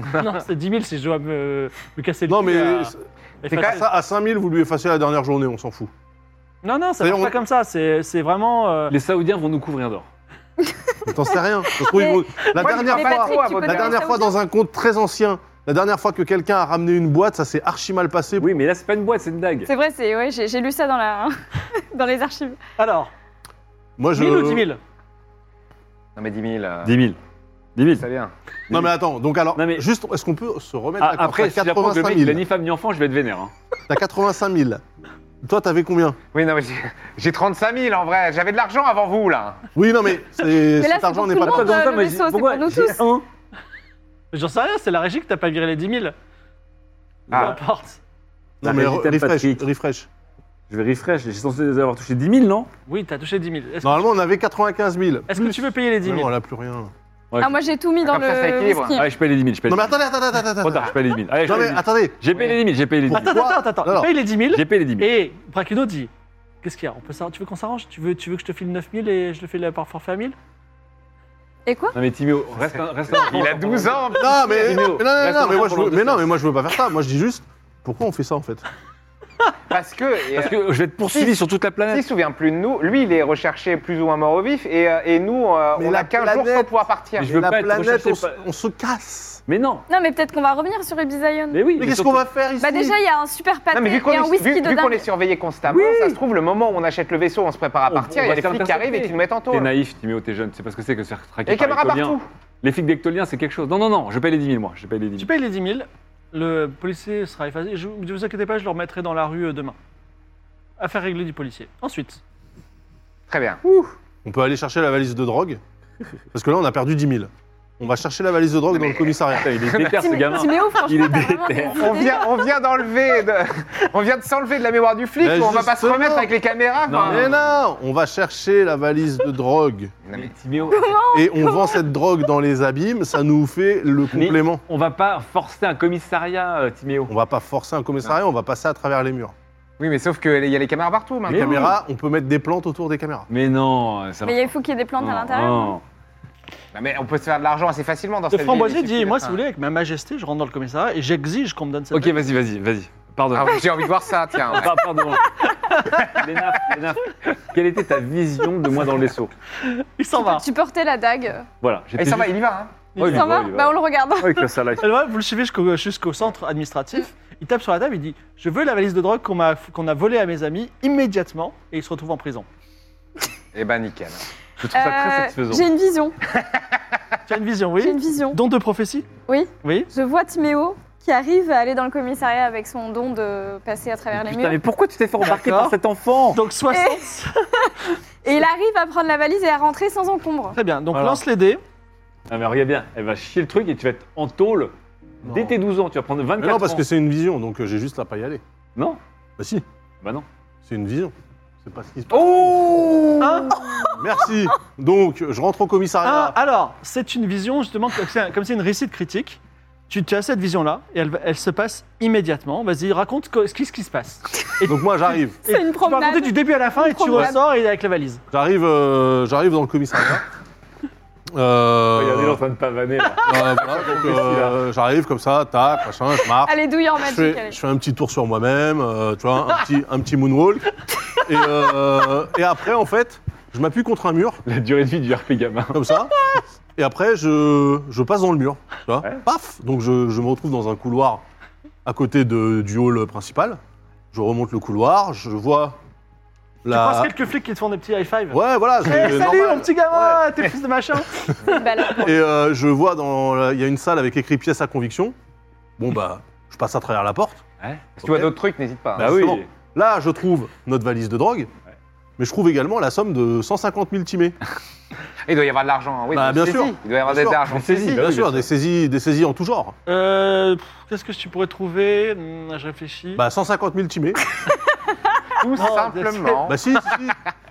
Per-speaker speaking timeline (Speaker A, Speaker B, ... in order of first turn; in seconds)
Speaker A: 0.1-3.9, 6.6-8.9, 22.8-23.1, 24.1-24.8, 44.3-46.1, 47.3-48.0, 52.9-54.1, 55.3-56.3, 63.1-66.1, 66.6-70.4, 105.2-109.8, 110.8-112.2, 148.3-152.2, 155.7-156.0, 159.6-160.5, 162.9-163.3, 164.8-172.5, 177.3-179.1, 179.6-179.9, 185.2-185.8, 186.3-187.4, 190.5-191.6, 203.2-203.6, 206.0-218.2, 246.7-251.7, 269.9-273.2, 275.6-276.5
Speaker B: 2.3-5.9, 7.0-7.4, 11.1-18.6, 24.0-24.7, 28.7-32.5, 33.9-34.8, 35.4-36.2, 39.8-41.8, 48.6-50.1, 53.8-56.9, 59.7-62.3, 63.1-64.1, 74.2-78.7, 85.8-89.4, 91.8-93.0, 114.2-115.6, 116.3-119.5, 125.2-126.3, 127.0-129.9, 131.1-134.6, 137.1-139.3, 141.3-143.3, 195.2-195.6, 196.4-198.4, 199.4-199.7, 200.7-203.1, 204.0-206.4, 214.7-215.4, 218.3-220.3, 221.3-222.4, 223.2-234.4, 235.7-236.2, 236.8-241.2, 241.8-243.6, 244.1-245.8, 246.6-247.1, 248.3-250.3, 252.0-255.2, 255.8-257.4, 259.0-261.5, 262.2-264.4, 266.1-269.8, 273.2-274.2, 276.5-277.2
Speaker C: 3.5-3.8, 12.4-14.1, 26.2-26.9, 27.9-28.3, 36.3-39.6, 47.3-47.6, 58.0-59.0, 72.7-74.7, 79.7-87.4, 93.7-99.7, 101.5-102.2, 113.3-113.9, 118.7-120.0, 121.8-127.3, 130.1-130.3, 139.8-141.8, 146.7-149.4, 153.3-154.8, 162.0-162.8, 173.5-174.2, 176.3-176.8, 202.1-203.7, 258.0-259.4, 265.3-268.2, 275.4-276.9
Speaker D: 8.9-10.1, 18.4-19.7, 26.9-27.2, 27.8-28.0, 29.5-29.9, 31.0-33.5, 41.3-43.2, 48.6-49.7, 50.7-52.7, 57.3-57.6, 59.0-60.0, 60.6-63.4, 64.5-65.1, 71.9-76.3, 80.4-82.0, 87.2-88.4, 89.5-89.9, 91.5-92.2, 95.7-96.2, 97.9-105.3, 119.4-122.1, 126.9-127.4, 130.2-131.0, 134.1-137.1, 141.3-141.8, 143.3-145.8, 151.9-153.6, 154.4-159.3, 161.6-162.3, 163.0-164.9, 174.6-175.7, 184.1-186.4, 190.9-191.2, 192.3-196.8, 221.9-224.6, 234.5-236.4, 257.6-258.3, 259.0-259.5, 267.5-268.4
Speaker E: 10.6-11.0, 11.7-14.3, 19.6-22.6, 40.8-43.1, 57.4-59.1, 71.7-72.0, 89.9-91.9, 92.6-95.0, 119.9-122.5, 130.7-131.9, 144.2-145.8, 160.2-161.5, 163.0-164.5, 174.7-176.2, 177.8-178.4, 179.3-184.6, 186.7-187.1, 188.2-190.6, 215.5-217.4, 226.4-227.6, 251.5-252.1, 274.5-275.1